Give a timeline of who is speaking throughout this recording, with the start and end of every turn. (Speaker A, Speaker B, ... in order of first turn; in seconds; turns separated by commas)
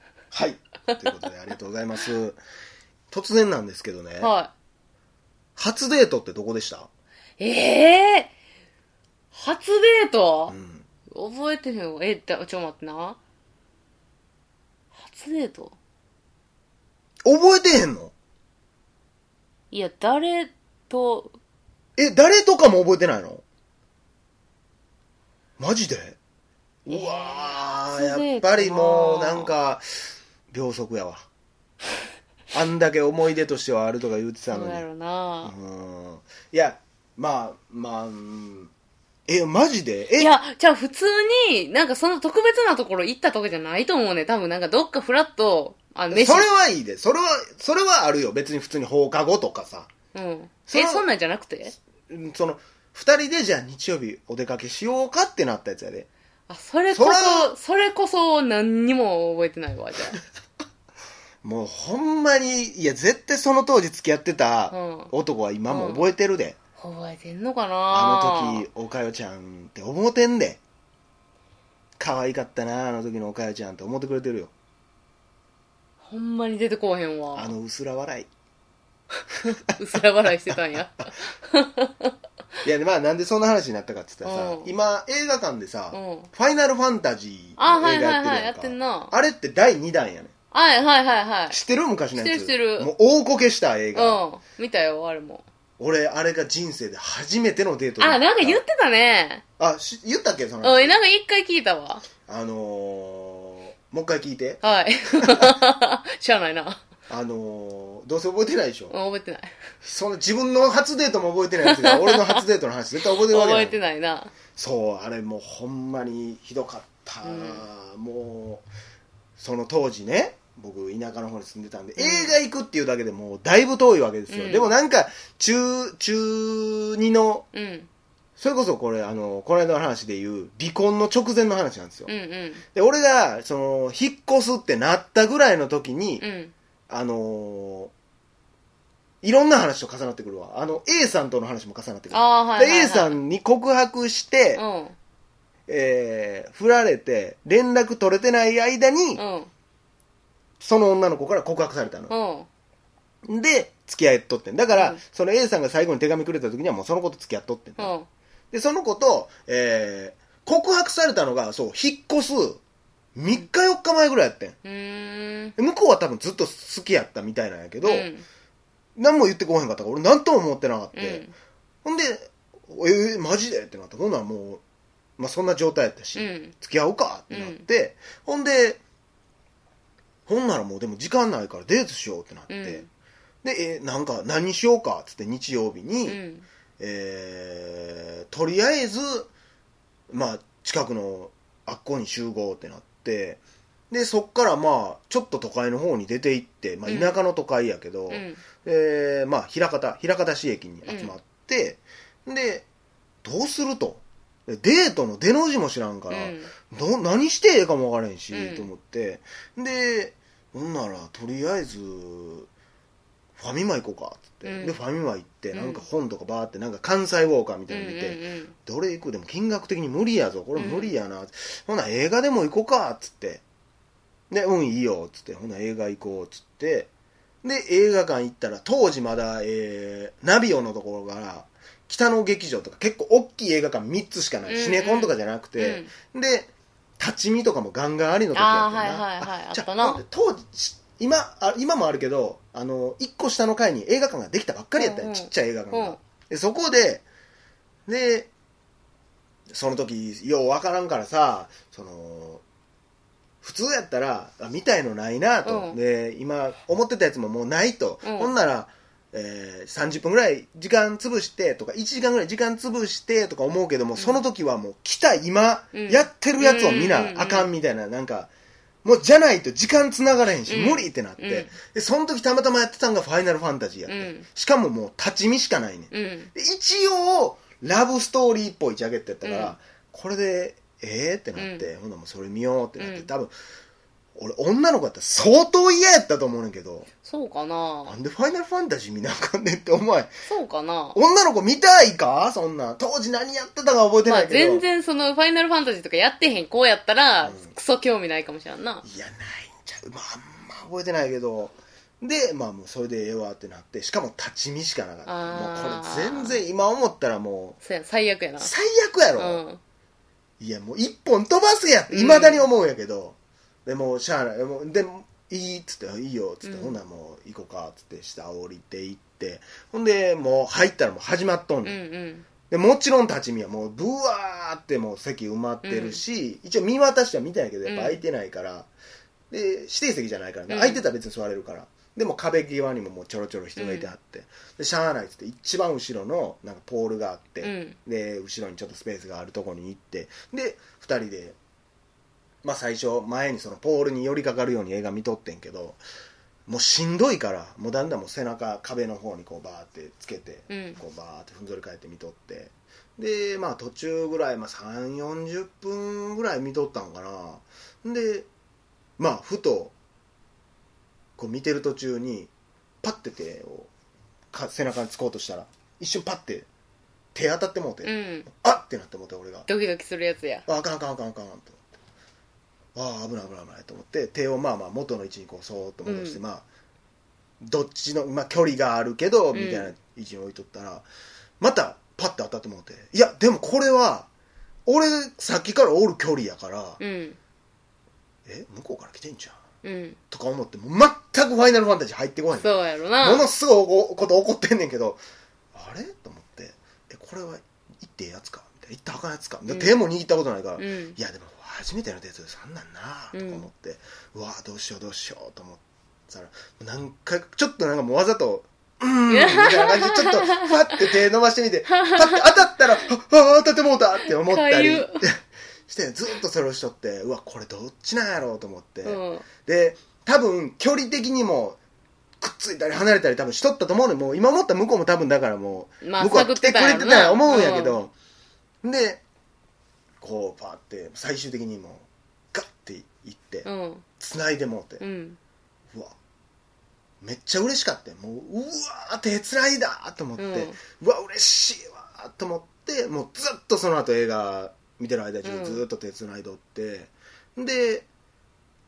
Speaker A: 0.3-2.4, Speaker A: 3.1-4.3, Speaker B: 4.2-4.5, Speaker A: 5.6-6.9, Speaker B: 7.4-8.3, Speaker B: 9.3-10.5, Speaker A: 10.5-10.8, Speaker B: 11.1-13.2, Speaker B: 14.9-15.8, Speaker A: 17.2-18.1, Speaker B: 19.7-21.4, Speaker A: 22.0-23.4, Speaker A: 25.6-26.2, Speaker A: 26.9-31.3, Speaker B: 26.9-29.5, Speaker A: 32.5-34.8, Speaker B: 34.5-35.5, Speaker A: 35.4-38.7, Speaker A: 39.3-40.3, Speaker B: 40.1-46.5, Speaker A: 46.1-49.9, Speaker B: 50.1-51.7, Speaker A: 50.7-51.0, Speaker A: 52.1-56.1, Speaker B: 56.5-60.2, Speaker A: 56.9-57.5, Speaker A: 61.4-66.5, Speaker B: 64.7-65.1, Speaker B: 65.7-66.1, Speaker B: 66.8-68.7, Speaker A: 67.9-70.6, Speaker A: 72.0-74.5, Speaker B: 76.0-77.5, Speaker A: 77.3-78.3, Speaker B: 79.8-82.1, Speaker A: 82.6-90.3, Speaker B: 84.2-84.7, Speaker B: 85.9-86.3, Speaker B: 87.6-89.1, Speaker B: 90.5-91.6, Speaker A: 91.5-94.2, Speaker B: 92.1-92.9, Speaker B: 93.9-95.4, Speaker A: 95.8-98.6, Speaker B: 98.0-99.4, Speaker A: 99.6-101.0, Speaker B: 100.6-102.0, Speaker A: 102.3-104.6, Speaker B: 104.6-106.8, Speaker A: 107.1-108.9, Speaker B: 108.9-109.5, Speaker A: 109.8-113.8, Speaker B: 111.6-112.4, Speaker B: 113.2-114.3, Speaker A: 114.5-118.7, Speaker B: 117.2-117.6, Speaker A: 119.4-127.5, Speaker B: 122.0-122.3, Speaker B: 124.3-124.7, Speaker B: 127.5-127.9, Speaker A: 128.4-132.1, Speaker B: 132.1-132.6, Speaker A: 132.7-136.2, Speaker B: 136.2-136.5, Speaker A: 136.9-137.9, Speaker A: 139.2-144.6, Speaker B: 142.1-143.2, Speaker B: 144.5-144.9, Speaker A: 145.7-149.2, Speaker B: 149.2-149.5, Speaker A: 150.6-152.1, Speaker B: 152.1-152.5, Speaker A: 153.2-157.9, Speaker B: 154.7-155.0, Speaker B: 157.8-158.1, Speaker A: 158.5-162.6, Speaker A: 163.2-164.6, Speaker B: 164.6-165.5, Speaker A: 165.6-168.1, Speaker B: 167.8-168.2, Speaker A: 169.0-171.3, Speaker B: 170.9-171.3, Speaker A: 171.8-174.6, Speaker A: 175.2-178.8, Speaker B: 176.2-176.5, Speaker B: 177.3-177.6, Speaker A: 180.3-182.8, Speaker B: 182.5-182.9, Speaker A: 183.4-186.2, Speaker B: 186.1-186.4, Speaker A: 186.8-189.3, Speaker A: 190.1-202.7, Speaker B: 196.8-197.2, Speaker B: 198.1-198.4, Speaker B: 200.8-201.1, Speaker A: 203.2-212.5, Speaker B: 206.1-206.5, Speaker B: 208.3-208.7, Speaker A: 213.4-223.4, Speaker B: 214.4-214.8, Speaker B: 215.5-215.8, Speaker B: 217.7-218.5, Speaker B: 220.6-220.9, Speaker A: 224.3-226.9, Speaker A: 227.4-247.0, Speaker B: 234.5-235.9, Speaker B: 238.3-240.0, Speaker B: 244.8-246.0, Speaker A: 247.9-248.3, Speaker A: 249.5-252.4, Speaker A: 253.4-268.3, Speaker B: 255.4-255.8, Speaker B: 258.0-258.3, Speaker B: 265.7-267.5, Speaker A: 268.8-283.3, Speaker B: 270.5-271.5, Speaker B: 273.9-274.2, Speaker B: 275.9-276.3, Speaker B: 279.2-279.6, Speaker B: 281.4-281.7, Speaker B: 282.8-283.1, Speaker A: 284.1-286.9, Speaker B: 287.0-287.9, Speaker A: 287.9-290.1, Speaker B: 290.3-291.0, Speaker A: 290.9-294.6, Speaker B: 294.0-298.8, Speaker A: 297.2-297.5, Speaker A: 298.8-307.6, Speaker B: 305.1-306.4, Speaker B: 307.6-308.5, Speaker A: 308.4-309.4, Speaker B: 309.1-309.6, Speaker A: 310.4-321.8, Speaker B: 311.9-312.4, Speaker B: 316.4-316.8, Speaker B: 321.6-322.2, Speaker A: 322.5-328.7, Speaker B: 325.6-326.0, Speaker B: 327.6-328.0, Speaker A: 329.3-341.4, Speaker B: 330.5-330.8, Speaker B: 333.6-333.9, Speaker B: 337.4-337.8, Speaker A: 342.4-345.8, Speaker A: 346.5-358.3, Speaker B: 350.5-350.8, Speaker A: 359.0-359.7, Speaker A: 361.2-362.3, Speaker A: 362.8-363.7, Speaker A: 364.3-366.5, Speaker A: 367.1-369.5, Speaker B: 367.8-368.3, Speaker B: 369.5-370.4, Speaker A: 370.4-371.6, Speaker A: 372.7-376.4, Speaker B: 375.8-376.2, Speaker A: 377.4-380.9, Speaker B: 379.3-379.7, Speaker A: 381.4-384.1, Speaker A: 384.6-386.8, Speaker B: 386.8-387.2, Speaker A: 388.2-389.4, Speaker B: 389.6-390.0, Speaker A: 390.1-395.0, Speaker B: 392.3-393.2, Speaker A: 395.5-421.6, Speaker B: 399.5-399.8, Speaker B: 400.6-401.0, Speaker B: 403.1-403.4, Speaker B: 409.1-410.7, Speaker B: 411.7-412.6, Speaker B: 414.0-415.0, Speaker B: 418.8-419.2, Speaker A: 422.2-427.9, Speaker B: 425.8-427.8, Speaker A: 428.6-429.0, Speaker A: 430.0-433.5, Speaker B: 433.4-433.8, Speaker A: 434.0-434.8, Speaker B: 434.8-435.2, Speaker A: 437.0-447.9, Speaker B: 440.2-440.6, Speaker B: 445.2-445.6